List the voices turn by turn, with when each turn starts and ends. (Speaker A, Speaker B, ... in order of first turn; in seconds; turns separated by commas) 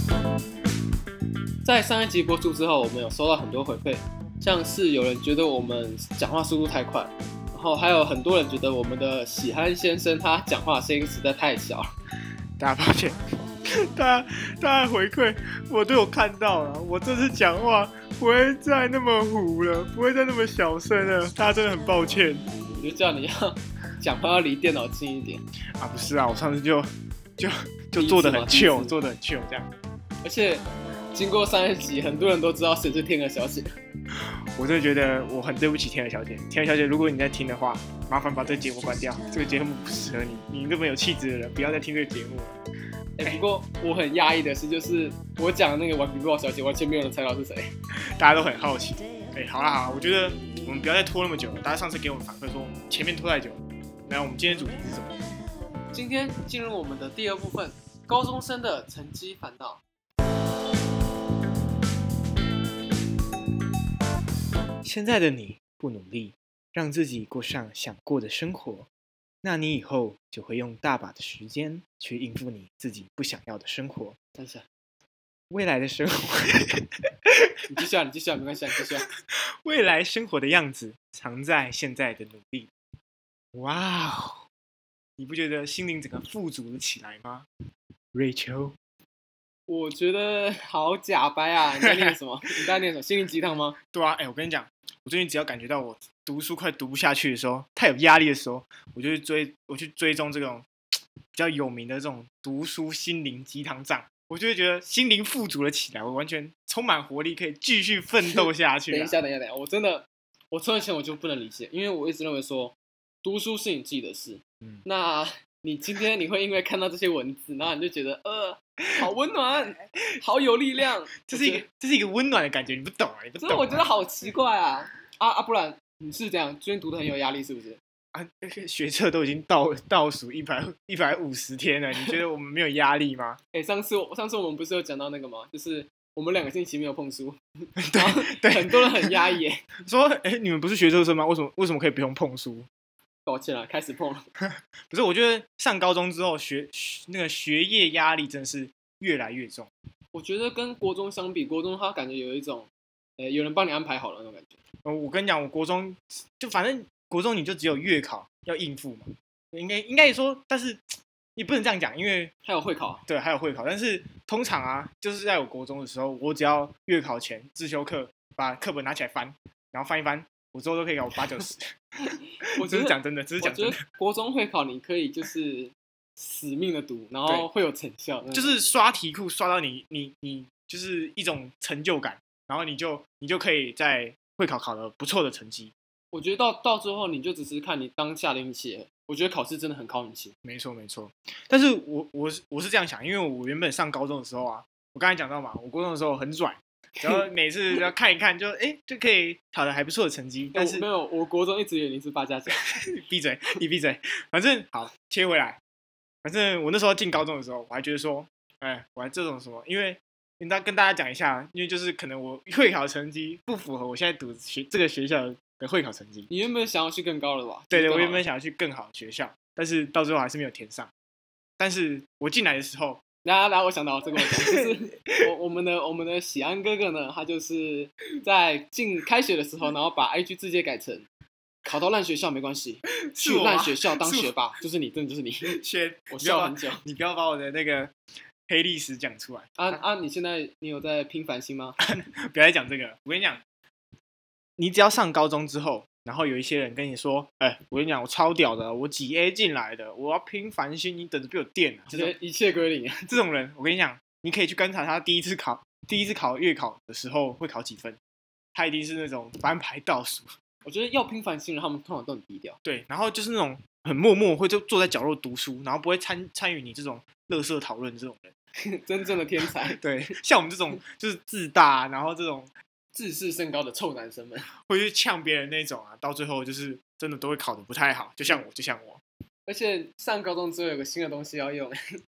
Speaker A: 1.6-11.9, Speaker B: 12.6-22.5, Speaker A: 22.8-25.4, Speaker B: 25.8-29.7, Speaker A: 28.0-28.9, Speaker A: 30.2-33.7, Speaker B: 34.6-42.6, Speaker A: 43.2-47.7, Speaker B: 48.2-55.2, Speaker A: 55.9-59.8, Speaker B: 64.8-68.9, Speaker B: 69.4-74.2, Speaker A: 74.4-74.6, Speaker B: 75.5-77.3, Speaker A: 77.7-79.1, Speaker B: 79.7-82.7, Speaker B: 83.5-84.5, Speaker B: 85.2-87.5, Speaker B: 88.1-88.8, Speaker A: 89.7-93.8, Speaker B: 91.8-92.1, Speaker B: 93.9-100.7, Speaker B: 101.3-109.2, Speaker A: 108.3-121.6, Speaker B: 121.3-123.9, Speaker A: 123.4-127.8, Speaker B: 128.1-133.4, Speaker A: 133.5-137.4, Speaker B: 137.8-139.2, Speaker A: 137.9-139.6, Speaker B: 139.8-142.7, Speaker A: 143.3-144.2, Speaker B: 144.9-149.7, Speaker A: 150.1-154.6, Speaker B: 154.8-162.3, Speaker A: 162.4-163.0, Speaker B: 163.1-171.7, Speaker A: 172.6-178.6, Speaker B: 172.6-173.8, Speaker B: 178.3-185.7, Speaker A: 186.1-190.3, Speaker B: 190.4-200.8, Speaker A: 200.5-202.6, Speaker B: 202.6-205.6, Speaker B: 206.2-216.3, Speaker A: 216.3-218.2, Speaker B: 217.7-220.9, Speaker B: 221.6-223.0, Speaker A: 223.2-231.1, Speaker B: 224.2-225.3, Speaker A: 231.6-235.6, Speaker B: 233.1-234.4, Speaker B: 235.5-237.9, Speaker A: 236.1-236.8, Speaker B: 238.5-239.6, Speaker A: 239.6-241.8, Speaker B: 241.8-243.4, Speaker B: 244.6-252.1, Speaker A: 251.9-253.1, Speaker B: 253.1-258.0, Speaker B: 258.6-260.3, Speaker A: 260.6-262.6, Speaker B: 262.6-268.3, Speaker A: 268.6-269.8, Speaker B: 269.7-272.5, Speaker A: 272.9-274.5, Speaker B: 274.6-279.0, Speaker A: 279.5-281.8